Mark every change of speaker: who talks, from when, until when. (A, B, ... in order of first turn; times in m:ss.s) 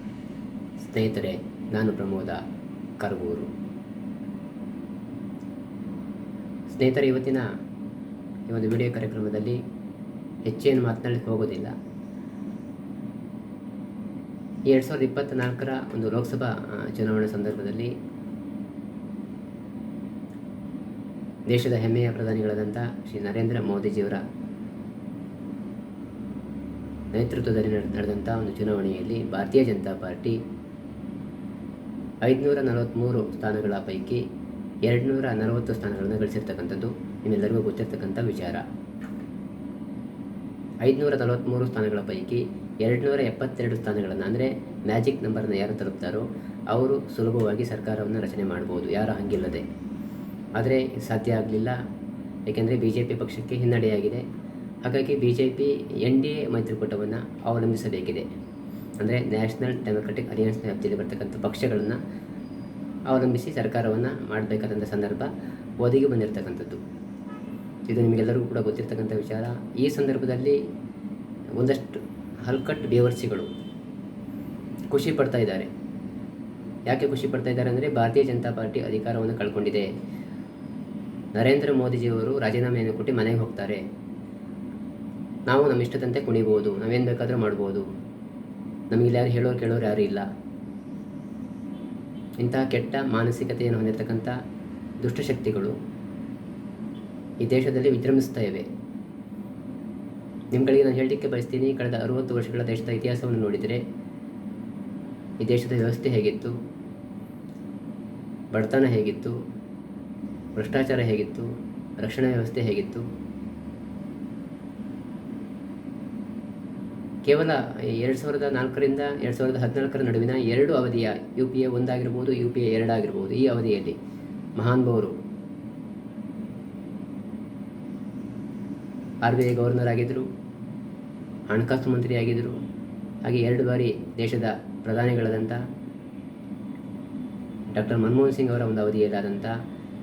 0:00.8-0:02.4 A
0:03.0-0:03.5 A
0:06.7-0:07.4 A
0:08.5-0:09.6 A
0:10.4-0:11.7 A
0:14.7-0:17.9 A
0:21.5-0:24.2 A
0:27.1-0:30.4 A
0:32.2-0:34.2 A
0:34.8-0:38.6 A
0:40.8-0:49.6 A
0:50.6-0:51.8 A
0:52.5-0:54.2 A
0:54.8-0:58.2 A
0:59.0-1:02.0 A
1:03.1-1:06.8 A
1:07.9-1:10.6 A
1:11.6-1:13.5 A
1:14.9-1:15.7 A
1:16.9-1:19.9 A
1:21.3-1:23.8 A
1:25.5-1:27.8 A
1:28.9-1:30.2 A
1:32.4-1:34.3 A
1:35.0-1:35.7 A
1:37.4-1:38.6 A
1:40.5-1:43.8 A
1:45.4-1:46.5 A
1:48.5-1:49.3 A
1:50.5-1:53.0 A
1:57.2-2:04.0 A
2:04.6-2:05.1 A
2:09.2-2:10.2 A
2:11.5-2:12.6 A
2:13.2-2:15.6 A
2:17.7-2:19.5 A